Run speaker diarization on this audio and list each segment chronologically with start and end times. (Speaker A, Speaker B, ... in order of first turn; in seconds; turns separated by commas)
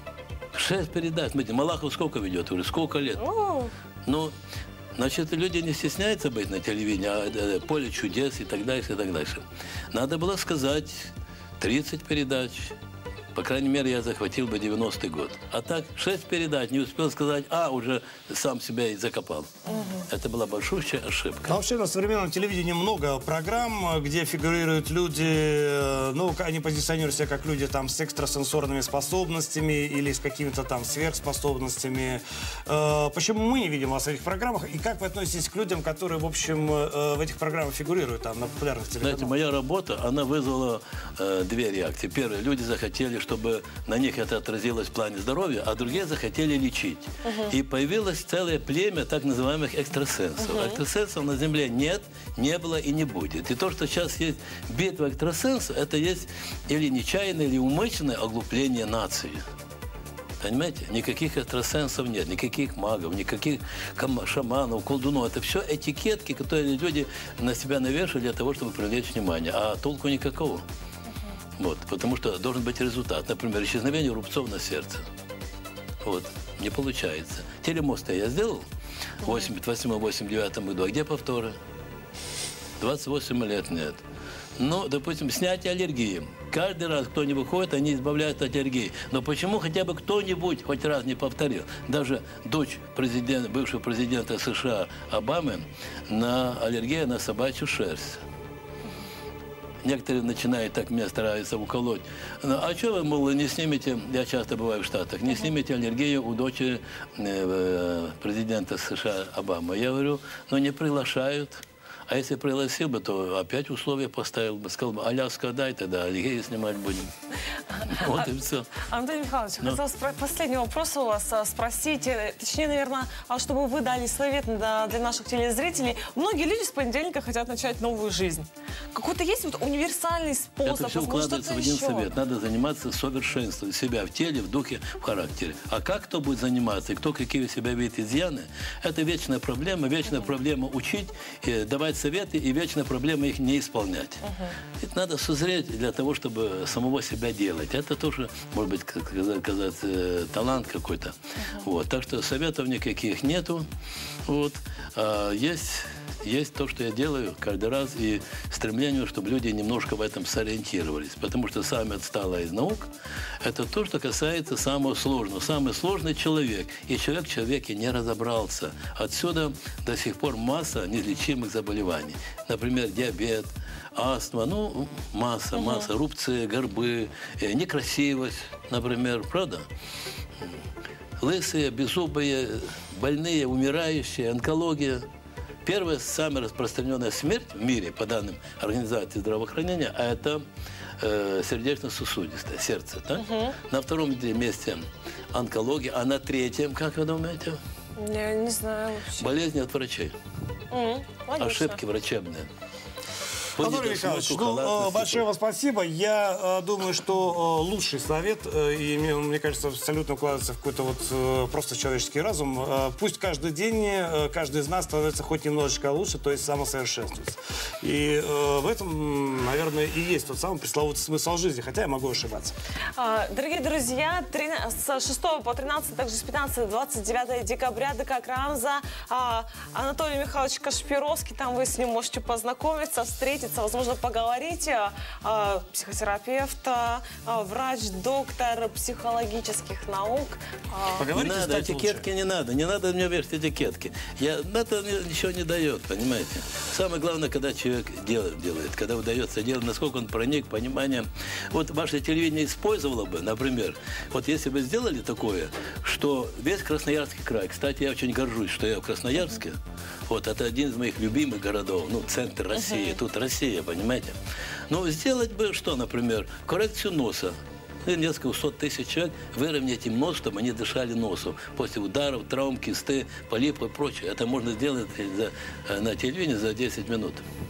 Speaker A: 0.5-3.2, Speaker B: 3.2-3.7, Speaker A: 4.1-4.3, Speaker A: 5.0-12.7, Speaker A: 13.3-19.5, Speaker B: 19.7-20.1, Speaker A: 20.1-21.6, Speaker C: 21.5-39.3, Speaker A: 39.0-59.4, Speaker B: 47.2-47.5, Speaker B: 50.4-50.8, Speaker A: 60.4-70.6, Speaker A: 71.6-75.0, Speaker A: 76.0-78.7, Speaker B: 79.2-79.5, Speaker A: 79.2-81.5, Speaker A: 82.8-84.0, Speaker A: 84.6-98.2, Speaker A: 99.8-117.1, Speaker B: 117.7-132.1, Speaker A: 117.8-118.8, Speaker A: 130.7-144.2, Speaker B: 144.2-144.5, Speaker A: 144.8-153.7, Speaker A: 154.3-162.9, Speaker A: 163.4-179.7, Speaker B: 175.5-175.9, Speaker A: 181.2-185.0, Speaker A: 185.7-190.4, Speaker A: 191.0-197.6, Speaker B: 193.2-193.6, Speaker B: 198.0-199.3, Speaker A: 199.2-200.1, Speaker B: 200.7-201.8, Speaker A: 201.4-202.5, Speaker A: 203.6-205.2, Speaker C: 203.6-222.5, Speaker B: 223.0-241.1, Speaker C: 241.0-242.1, Speaker A: 241.2-264.1, Speaker B: 262.6-263.0, Speaker A: 264.7-277.2